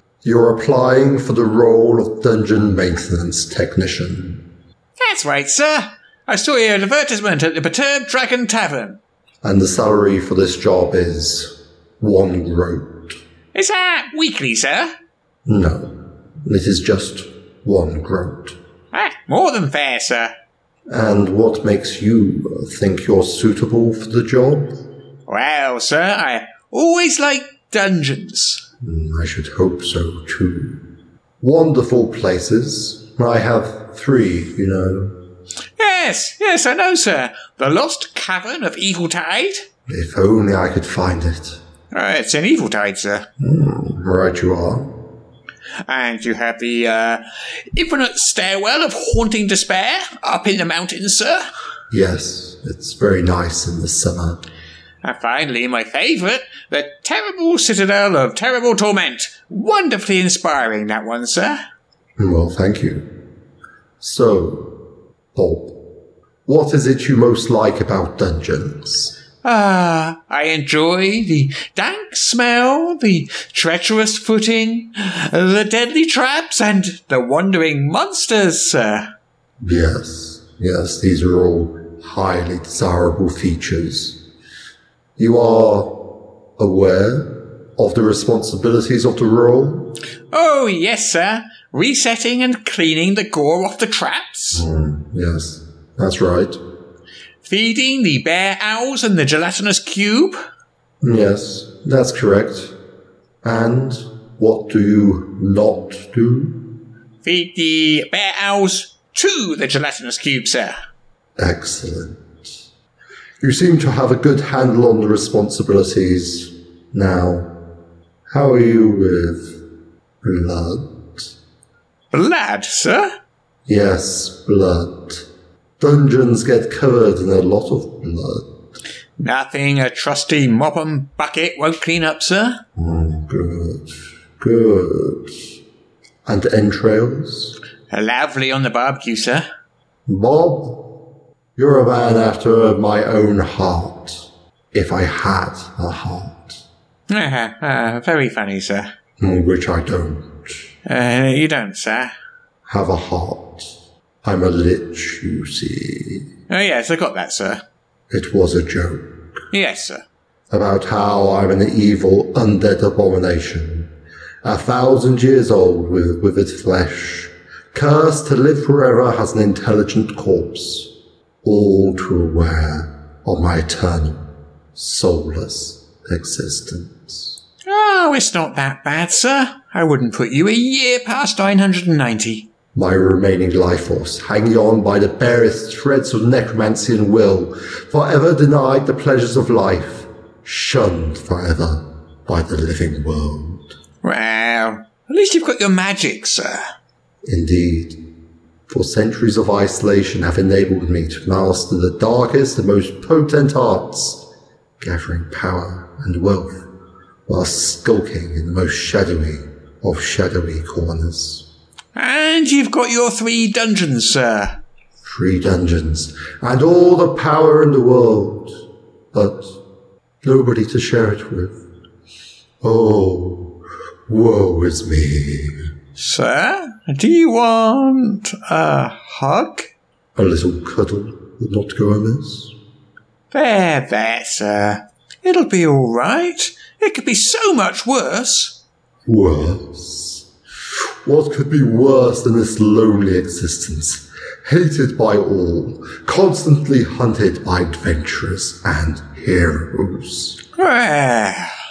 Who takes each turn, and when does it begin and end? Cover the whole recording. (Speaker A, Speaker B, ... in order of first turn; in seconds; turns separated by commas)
Speaker A: 0.2-4.4, Speaker B: 5.0-9.0, Speaker A: 9.4-13.1, Speaker B: 13.5-14.9, Speaker A: 15.5-15.9, Speaker A: 16.4-18.6, Speaker B: 18.9-20.3, Speaker A: 20.9-24.7, Speaker B: 25.3-28.6, Speaker A: 28.8-30.8, Speaker A: 31.4-35.1, Speaker B: 35.8-39.6, Speaker A: 39.9-41.6, Speaker B: 41.9-43.2, Speaker A: 43.4-44.9, Speaker B: 45.9-47.2, Speaker B: 47.7-51.4, Speaker A: 51.9-54.4, Speaker B: 55.0-61.6, Speaker A: 62.2-63.0, Speaker A: 64.0-64.7, Speaker A: 65.3-65.7, Speaker A: 66.5-69.1, Speaker B: 69.4-79.0, Speaker A: 79.6-84.2, Speaker A: 85.2-86.0, Speaker A: 86.6-89.9, Speaker B: 90.3-94.6, Speaker A: 94.5-96.6, Speaker B: 97.4-100.4, Speaker A: 101.0-102.7, Speaker A: 103.4-106.5, Speaker B: 107.2-110.7, Speaker A: 111.4-112.2, Speaker A: 113.4-117.5, Speaker A: 118.3-119.5, Speaker A: 120.2-120.9, Speaker B: 122.1-123.1, Speaker A: 123.7-125.2, Speaker A: 125.8-128.5, Speaker B: 129.2-132.6, Speaker A: 132.8-135.3, Speaker A: 136.2-137.5, Speaker B: 137.9-139.4, Speaker A: 140.1-140.8, Speaker A: 141.6-144.2, Speaker A: 144.7-146.6, Speaker B: 147.1-148.9, Speaker A: 149.2-150.3, Speaker B: 150.8-152.1, Speaker A: 152.7-153.6, Speaker A: 154.2-156.2, Speaker B: 156.5-157.6, Speaker A: 158.1-159.1, Speaker B: 159.5-160.0, Speaker A: 160.5-163.9, Speaker A: 164.4-170.9, Speaker A: 171.4-174.2, Speaker A: 174.7-177.4, Speaker B: 177.7-182.5, Speaker A: 182.7-193.7, Speaker B: 194.0-196.6, Speaker A: 197.2-197.9, Speaker A: 198.7-204.2, Speaker A: 204.8-206.5, Speaker A: 207.3-211.4, Speaker B: 211.9-214.5, Speaker A: 215.0-218.5, Speaker A: 219.1-219.5, Speaker A: 220.2-221.6, Speaker A: 222.6-223.5, Speaker A: 224.1-225.5, Speaker B: 226.0-229.7, Speaker A: 230.2-232.5, Speaker B: 233.3-238.6, Speaker A: 239.1-240.2, Speaker A: 241.0-250.4, Speaker B: 250.6-251.5